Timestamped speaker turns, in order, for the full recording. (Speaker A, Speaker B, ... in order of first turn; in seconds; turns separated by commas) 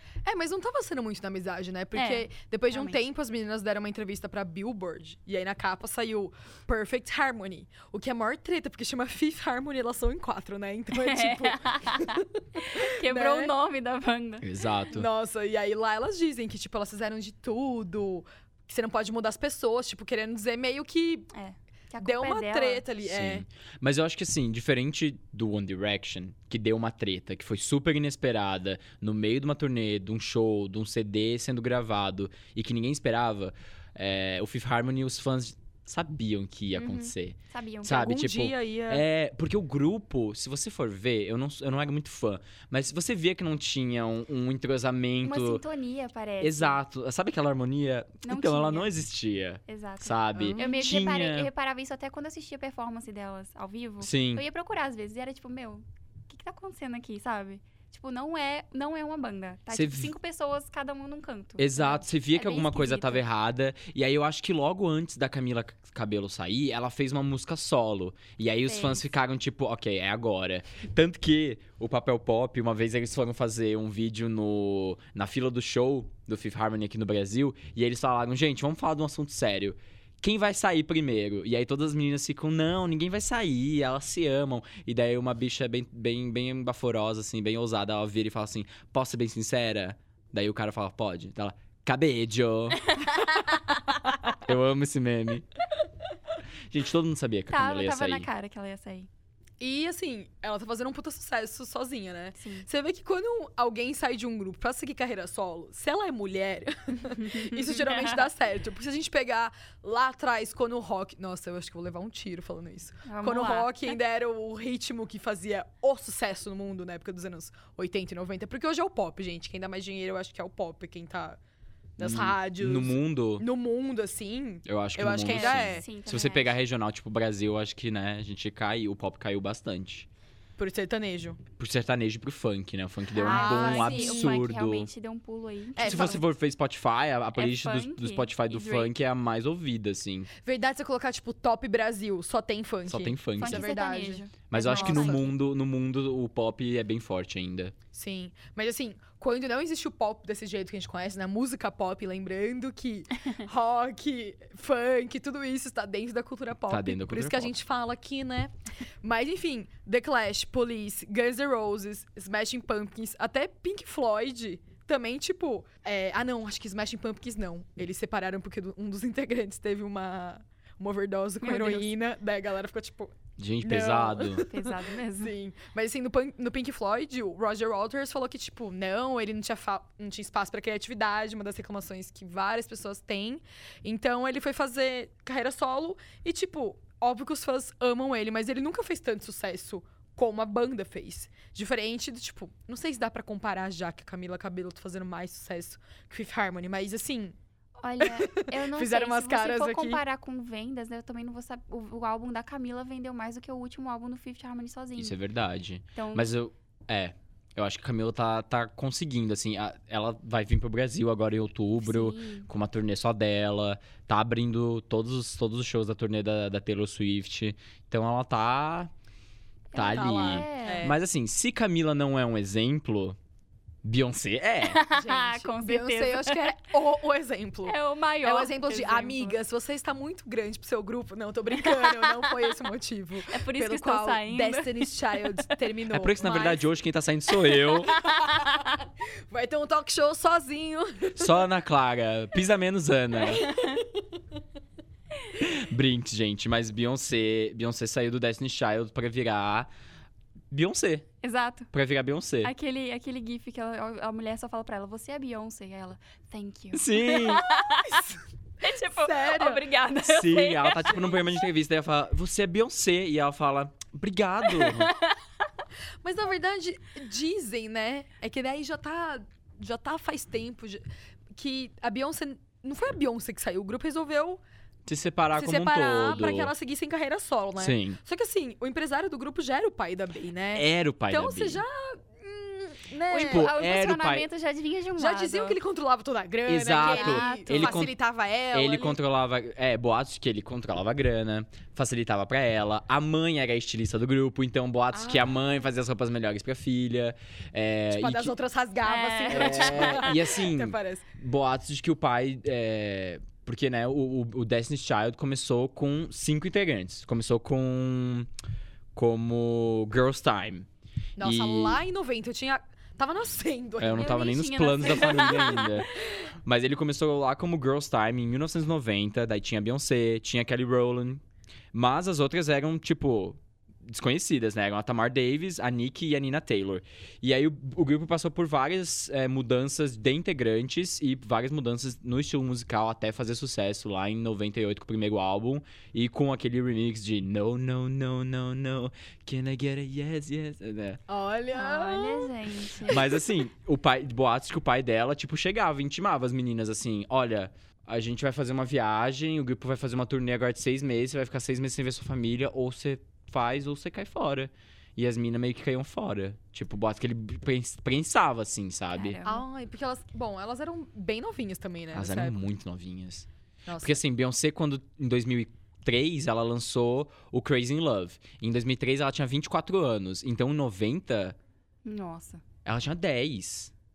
Speaker A: 0.2-13.5, Speaker B: 1.9-3.0, Speaker B: 10.9-14.4, Speaker C: 14.4-15.1, Speaker A: 14.9-21.3, Speaker B: 21.3-22.8, Speaker A: 22.0-23.4, Speaker C: 23.0-45.6, Speaker B: 36.7-38.1, Speaker A: 37.9-39.0, Speaker B: 45.2-46.8, Speaker C: 46.4-51.5, Speaker B: 48.2-48.9, Speaker B: 49.7-63.2, Speaker A: 50.4-50.9, Speaker C: 54.0-54.4, Speaker C: 59.7-60.1, Speaker C: 61.6-92.9, Speaker B: 68.7-69.1, Speaker C: 94.4-95.5, Speaker C: 96.7-98.3, Speaker B: 97.5-99.1, Speaker A: 99.6-121.4, Speaker B: 102.4-102.7, Speaker B: 107.0-108.3, Speaker B: 113.0-114.0, Speaker A: 122.0-125.8, Speaker C: 122.0-123.5, Speaker C: 124.7-130.1, Speaker B: 125.2-126.6, Speaker A: 130.6-131.4, Speaker C: 131.6-134.9, Speaker B: 133.1-136.2, Speaker A: 133.2-134.4, Speaker A: 135.8-136.2, Speaker C: 135.8-140.3, Speaker B: 137.3-138.9, Speaker A: 140.4-145.3, Speaker C: 142.9-143.7, Speaker B: 143.4-145.3, Speaker C: 144.5-147.7, Speaker A: 147.9-158.5, Speaker C: 156.7-157.5, Speaker A: 159.0-197.3, Speaker B: 171.4-171.9, Speaker C: 173.4-174.5, Speaker B: 174.5-175.3, Speaker B: 197.8-205.2, Speaker A: 198.0-200.0, Speaker C: 205.0-218.9, Speaker B: 205.9-206.3, Speaker B: 211.8-212.5, Speaker B: 219.7-220.9, Speaker C: 219.7-223.2, Speaker A: 219.8-221.0, Speaker C: 223.8-224.8, Speaker B: 224.6-226.6, Speaker A: 224.9-236.7, Speaker B: 227.7-229.4, Speaker B: 231.6-232.5, Speaker B: 233.3-235.3, Speaker C: 235.9-237.9, Speaker B: 237.5-238.8, Speaker A: 238.0-238.5, Speaker A: 239.3-241.4, Speaker C: 241.1-243.4, Speaker B: 243.4-243.8, Speaker A: 243.4-244.1, Speaker C: 245.3-249.7, Speaker C: 250.5-251.1, Speaker B: 251.2-251.7, Speaker C: 251.7-252.5, Speaker B: 252.4-258.0, Speaker C: 256.7-257.4, Speaker A: 257.9-258.2, Speaker B: 258.6-261.4, Speaker A: 258.9-259.7, Speaker C: 260.0-264.9, Speaker A: 260.7-261.0, Speaker B: 264.4-265.2, Speaker A: 266.0-270.8, Speaker A: 271.3-274.4, Speaker C: 274.9-276.5, Speaker A: 275.3-283.5, Speaker C: 277.6-278.0, Speaker C: 280.5-281.6, Speaker B: 283.1-285.6, Speaker C: 283.1-284.2, Speaker A: 285.0-289.0, Speaker C: 286.5-287.9, Speaker B: 286.7-287.9, Speaker C: 288.5-298.3, Speaker A: 294.9-295.4, Speaker A: 297.9-301.1, Speaker B: 298.8-300.2, Speaker C: 299.3-308.3, Speaker C: 308.9-310.7, Speaker A: 311.2-314.3, Speaker C: 311.2-311.8, Speaker C: 313.8-315.9, Speaker B: 313.9-315.9, Speaker A: 315.1-315.4, Speaker C: 316.4-341.0, Speaker A: 341.1-342.3, Speaker B: 341.5-343.1, Speaker A: 342.9-343.2, Speaker C: 342.9-359.2, Speaker B: 358.9-359.4, Speaker A: 359.2-362.4, Speaker C: 361.9-363.3, Speaker A: 363.6-364.0, Speaker C: 363.8-371.4, Speaker B: 371.8-372.4, Speaker C: 372.6-373.7